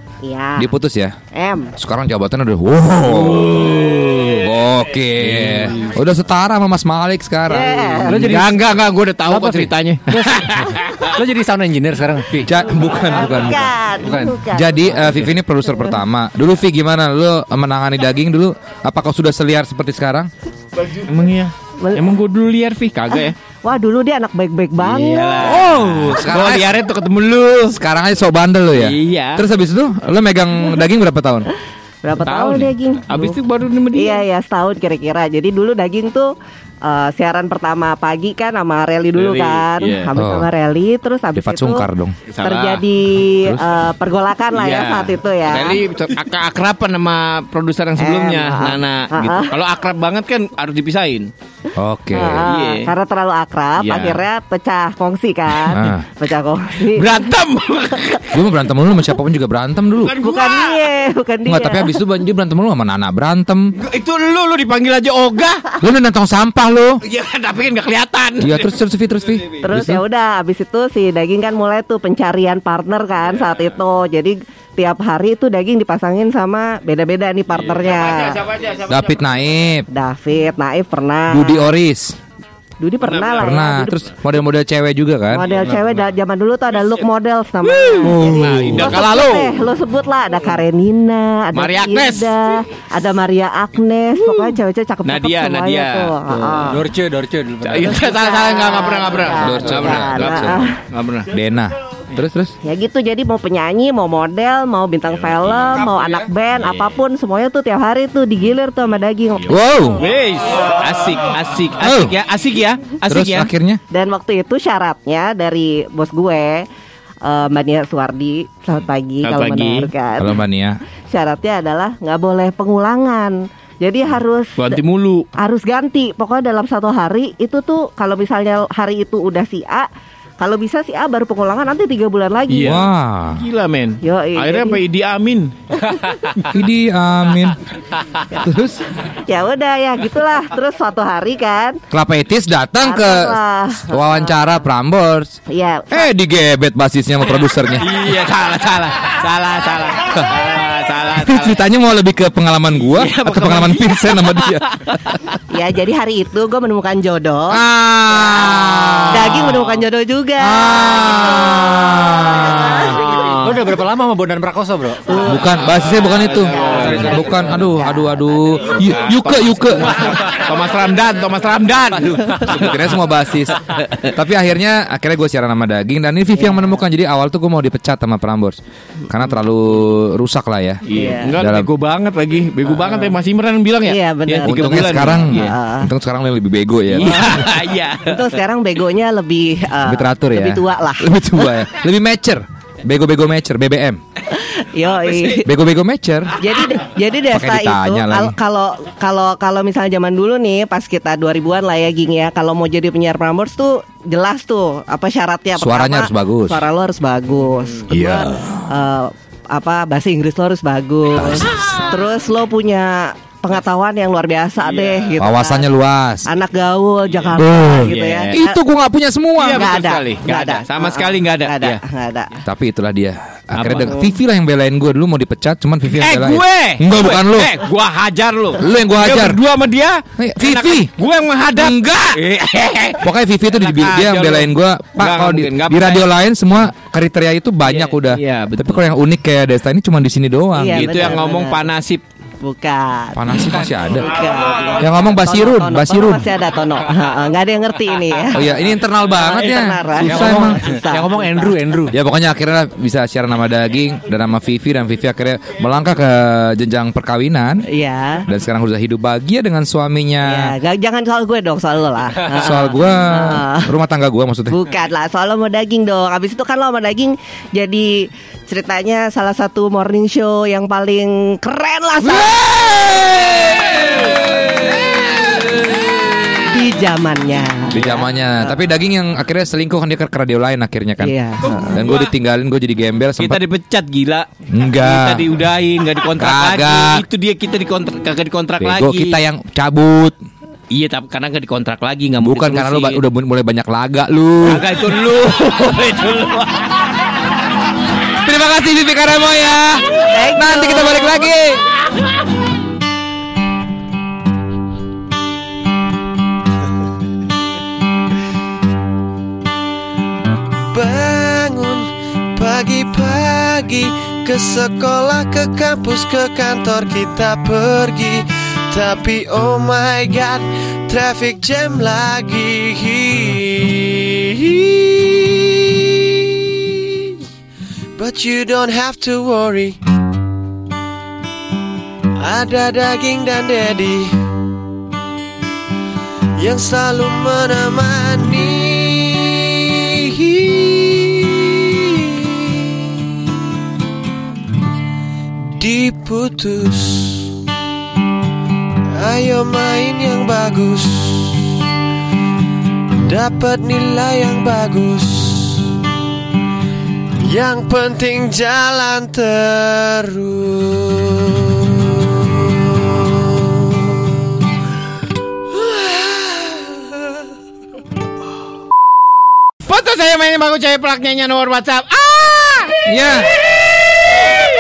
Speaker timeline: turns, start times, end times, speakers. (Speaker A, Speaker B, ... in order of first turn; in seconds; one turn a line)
Speaker A: 0.2-0.7
Speaker B: 0.6-1.2
Speaker A: 1.3-1.7
Speaker B: 1.8-3.7
Speaker C: 3.0-4.5
Speaker B: 4.4-8.5
Speaker C: 5.2-5.9
Speaker A: 7.5-8.3
Speaker D: 8.1-8.6
Speaker C: 8.2-10.9
Speaker D: 9.3-12.5
Speaker B: 12.4-13.7
Speaker A: 13.1-15.0
Speaker D: 14.0-14.4
Speaker B: 14.5-20.3
Speaker C: 21.0-23.4
Speaker A: 21.8-22.1
Speaker A: 23.1-25.6
Speaker C: 24.8-27.8
Speaker B: 25.4-26.8
Speaker B: 27.7-31.5
Speaker C: 28.8-29.4
Speaker A: 32.0-33.4
Speaker C: 32.2-34.2
Speaker A: 33.9-36.3
Speaker A: 36.9-41.9
Speaker C: 39.1-40.1
Speaker B: 40.2-40.5
Speaker B: 41.3-42.2
Speaker C: 42.3-42.8
Speaker A: 42.4-45.8
Speaker C: 44.5-51.3
Speaker A: 48.0-49.5
Speaker B: 51.8-52.4
Speaker A: 52.1-57.3
Speaker C: 52.3-52.9
Speaker C: 53.8-54.2
Speaker B: 55.7-56.0
Speaker C: 57.0-58.3
Speaker B: 58.3-60.2
Speaker C: 60.0-60.8
Speaker A: 60.2-62.0
Speaker B: 61.5-63.7
Speaker C: 63.8-65.6
Speaker B: 65.8-67.0
Speaker C: 67.0-68.7
Speaker B: 68.4-70.0
Speaker C: 69.3-69.6
Speaker A: 69.6-78.4
Speaker C: 77.5-78.8
Speaker B: 78.9-79.9
Speaker A: 79.9-81.7
Speaker B: 81.3-82.2
Speaker A: 82.8-84.1
Speaker C: 83.0-83.7
Speaker B: 83.4-85.5
Speaker A: 85.3-96.8
Speaker C: 85.5-86.0
Speaker C: 87.7-89.5
Speaker B: 88.0-89.0
Speaker C: 91.5-92.3
Speaker C: 94.2-94.5
Speaker C: 95.0-96.6
Speaker D: 96.7-98.2
Speaker C: 97.6-101.3
Speaker A: 98.0-100.7
Speaker B: 99.4-100.7
Speaker B: 101.3-102.5
Speaker A: 102.6-109.6
Speaker C: 105.1-105.9
Speaker D: 105.9-106.2
Speaker C: 106.5-107.0
Speaker B: 109.5-110.0
Speaker C: 109.5-113.5
Speaker B: 111.8-112.1
Speaker B: 113.1-113.8
Speaker A: 113.9-116.7
Speaker A: 117.2-120.4
Speaker C: 119.2-119.9
Speaker B: 120.2-120.8
Speaker A: 121.1-124.8
Speaker C: 124.6-125.3
Speaker A: 125.4-129.9
Speaker A: 130.4-132.8
Speaker C: 132.5-135.5
Speaker B: 132.6-133.4
Speaker A: 134.0-134.8
Speaker B: 136.5-137.6
Speaker B: 138.4-138.8
Speaker A: 139.3-141.8
Speaker B: 141.9-143.3
Speaker A: 142.8-144.5
Speaker B: 143.9-145.4
Speaker A: 145.5-146.1
Speaker B: 145.9-147.9
Speaker C: 147.8-151.6
Speaker B: 151.2-155.2
Speaker C: 152.9-154.9
Speaker A: 155.5-157.6
Speaker B: 157.5-159.7
Speaker A: 158.1-158.5
Speaker C: 158.7-159.5
Speaker A: 159.1-161.7
Speaker B: 160.4-163.0
Speaker A: 162.6-163.2
Speaker C: 163.1-163.6
Speaker D: 163.4-165.1
Speaker A: 165.1-165.4
Speaker B: 165.3-169.9
Speaker C: 165.7-167.4
Speaker A: 166.0-168.4
Speaker C: 168.7-172.8
Speaker B: 172.4-178.6
Speaker C: 173.7-174.1
Speaker A: 176.4-176.8
Speaker B: 179.1-181.7
Speaker C: 180.9-185.6
Speaker A: 180.9-181.3
Speaker A: 183.8-185.9
Speaker B: 184.5-187.3
Speaker C: 186.9-188.3
Speaker A: 187.1-187.4
Speaker A: 188.0-191.2
Speaker B: 189.9-194.0
Speaker A: 194.4-195.5
Speaker C: 194.9-195.4
Speaker B: 195.4-196.4
Speaker A: 196.4-215.7
Speaker B: 197.3-198.3
Speaker B: 205.6-206.6
Speaker B: 207.9-208.7
Speaker B: 211.2-211.5
Speaker C: 214.7-215.0
Speaker B: 215.2-216.3
Speaker A: 216.3-218.6
Speaker C: 217.1-218.4
Speaker B: 217.4-219.6
Speaker C: 219.4-221.8
Speaker A: 219.4-222.3
Speaker B: 222.5-227.5
Speaker C: 223.5-224.0
Speaker C: 226.0-233.0
Speaker B: 228.6-229.4
Speaker B: 230.2-230.9
Speaker B: 231.6-232.2
Speaker B: 233.0-241.1
Speaker C: 233.6-236.1
Speaker C: 237.7-238.8
Speaker A: 240.6-241.6
Speaker C: 240.7-242.0
Speaker A: 242.4-248.5
Speaker B: 243.2-244.2
Speaker B: 244.8-246.3
Speaker B: 248.3-250.6
Speaker A: 249.1-251.6
Speaker D: 250.0-251.9
Speaker B: 251.9-257.6
Speaker A: 257.7-258.2
Speaker B: 258.3-260.5
Speaker A: 260.2-263.7
Speaker B: 262.4-264.6
Speaker A: 264.5-272.3
Speaker B: 272.0-273.7
Speaker A: 276.5-278.5
Speaker B: 277.7-283.4
Speaker A: 281.0-281.7
Speaker C: 283.2-289.2
Speaker B: 284.5-285.2
Speaker B: 286.2-287.0
Speaker B: 288.6-290.2
Speaker C: 290.7-293.0
Speaker B: 292.2-294.7
Speaker C: 294.4-296.7
Speaker B: 298.2-301.6
Speaker A: 300.0-301.3
Speaker E: 310.7-327.1
Speaker E: 328.0-329.8
Speaker E: 332.2-334.1
Speaker E: 336.4-342.7
Speaker E: 345.6-347.3
Speaker E: 349.0-351.5
Speaker E: 353.1-355.7
Speaker E: 357.2-364.2
Speaker E: 365.5-366.8
Speaker C: 369.6-372.8
Speaker B: 372.9-373.3